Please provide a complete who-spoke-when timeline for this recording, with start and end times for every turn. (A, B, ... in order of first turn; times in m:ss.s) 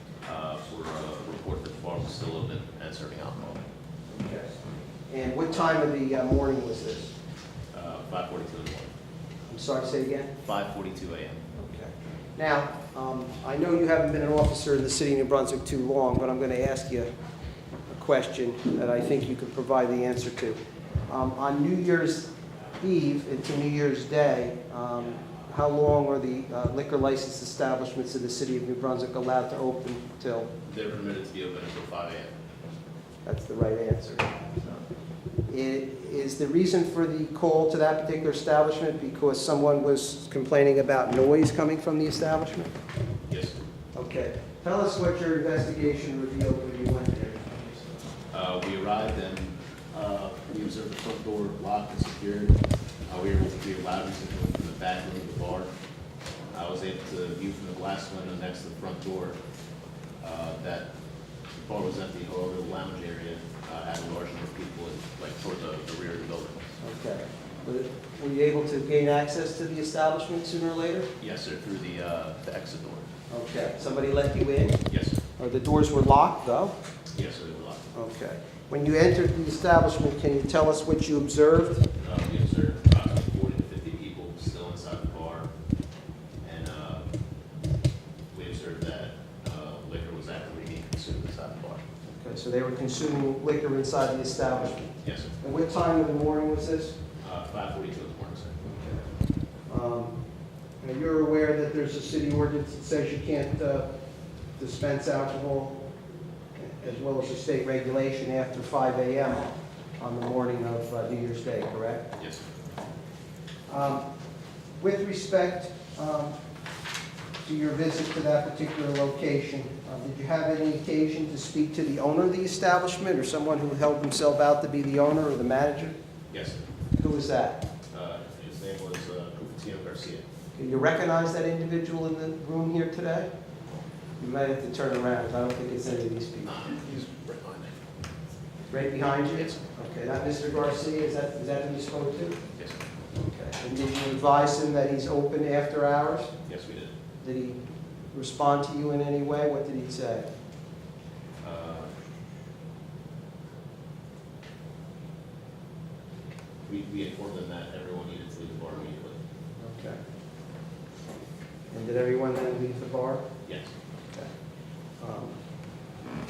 0:00.2-0:03.6 A
0:04.1-0:04.6 B
0:05.1-0:07.1 B
0:07.7-0:08.9 A
0:09.5-0:10.3 B
0:10.4-0:11.4 A
0:11.6-0:17.1 B
0:17.9-0:20.6 B
0:21.1-0:30.5 B
0:30.6-0:32.3 A
0:33.2-0:34.8 B
0:35.5-0:42.7 B
0:43.3-0:43.6 A
0:44.0-0:48.0 B
0:48.3-0:55.7 A
0:56.5-0:59.4 A
1:00.2-1:00.9 A
1:01.6-1:06.7 A
1:06.8-1:11.1 B
1:11.2-1:13.1 A
1:13.3-1:14.8 B
1:14.9-1:15.2 A
1:15.4-1:16.8 B
1:17.1-1:17.9 A
1:17.9-1:21.9 B
1:22.0-1:25.5 A
1:26.4-1:27.1 A
1:28.3-1:31.8 A
1:32.1-1:37.0 B
1:35.0-1:35.3 A
1:37.2-1:38.6 A
1:38.6-1:39.0 B
1:39.7-1:40.2 B
1:40.8-1:43.9 B
1:44.6-1:45.9 B
1:46.6-1:52.1 B
1:53.7-1:54.0 B
1:54.8-1:56.4 B
1:57.4-2:06.0 B
2:06.3-2:06.6 A
2:07.0-2:07.6 B
2:07.9-2:10.2 A
2:10.6-2:13.3 B
2:14.2-2:16.6 B
2:16.5-2:17.8 A
2:18.7-2:22.4 B
2:22.6-2:22.8 A
2:23.2-2:26.3 B
2:26.5-2:26.9 A
2:27.2-2:30.3 B
2:31.4-2:31.9 A
2:36.7-2:39.2 A
2:39.6-2:40.0 B
2:41.7-2:43.2 B
2:43.5-2:43.7 A
2:45.0-2:45.4 B